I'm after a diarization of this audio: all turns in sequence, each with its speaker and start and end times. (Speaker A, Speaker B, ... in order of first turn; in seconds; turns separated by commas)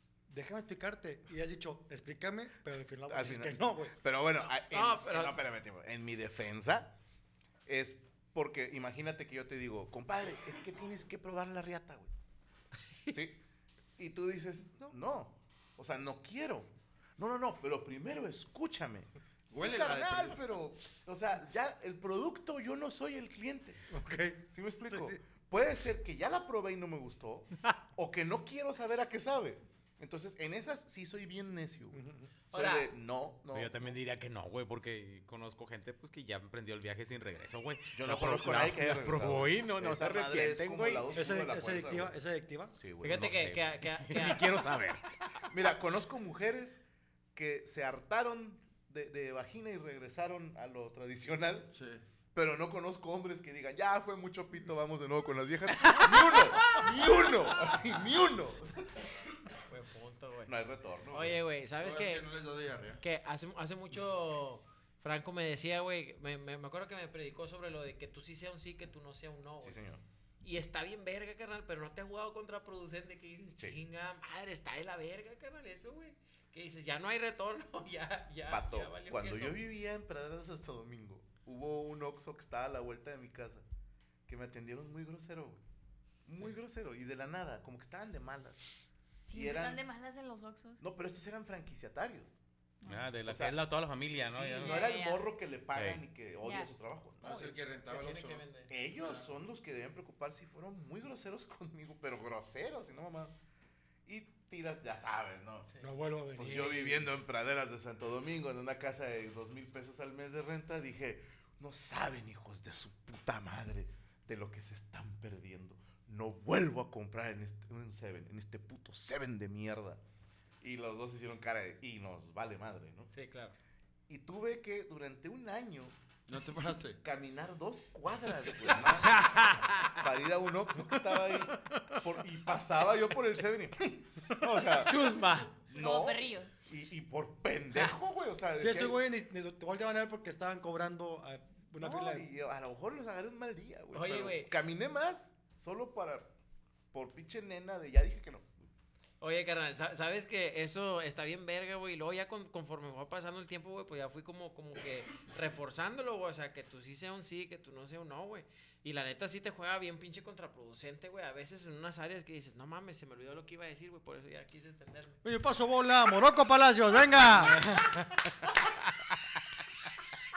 Speaker A: 0.3-4.0, Speaker B: 3.1-6.9, Speaker C: 4.4-5.4, Speaker B: 7.7-12.1, Speaker B: 13.1-13.4, Speaker B: 14.0-23.8, Speaker D: 19.5-20.4, Speaker A: 23.9-25.2, Speaker B: 24.5-32.0, Speaker A: 31.9-32.3, Speaker B: 32.5-34.0, Speaker C: 32.5-32.9, Speaker E: 33.5-41.1, Speaker B: 37.9-42.1, Speaker A: 41.1-42.8, Speaker B: 42.7-43.5, Speaker C: 43.0-44.5, Speaker E: 43.2-45.1, Speaker B: 45.4-46.8, Speaker B: 47.4-51.7, Speaker D: 51.7-52.0, Speaker B: 52.3-58.9, Speaker C: 59.7-60.5, Speaker B: 60.5-61.4, Speaker C: 61.1-62.3, Speaker D: 61.8-63.0, Speaker C: 63.0-69.8, Speaker B: 69.6-70.0, Speaker C: 70.4-79.6, Speaker B: 78.5-83.6, Speaker B: 84.3-85.6, Speaker B: 86.2-88.6, Speaker F: 89.3-90.8, Speaker B: 89.3-89.8, Speaker B: 90.8-92.3, Speaker F: 92.8-93.2, Speaker E: 92.9-94.9, Speaker B: 93.2-93.6, Speaker B: 94.1-97.7, Speaker F: 94.6-95.3, Speaker E: 95.7-96.0, Speaker F: 96.4-96.7, Speaker D: 97.2-98.5, Speaker C: 97.8-99.2, Speaker B: 98.7-103.3, Speaker B: 104.1-105.7, Speaker A: 105.8-107.1, Speaker B: 106.4-120.0, Speaker B: 120.6-123.1, Speaker C: 123.1-123.5, Speaker B: 124.1-125.9, Speaker D: 126.3-127.0, Speaker B: 127.0-135.1, Speaker E: 129.1-129.9, Speaker C: 134.8-135.4, Speaker E: 134.9-135.6, Speaker F: 135.7-136.6, Speaker B: 135.7-139.0, Speaker A: 138.6-142.3, Speaker B: 141.8-146.3, Speaker C: 143.9-144.5, Speaker B: 146.9-148.5, Speaker C: 149.2-165.2, Speaker A: 165.2-167.6, Speaker E: 167.3-168.2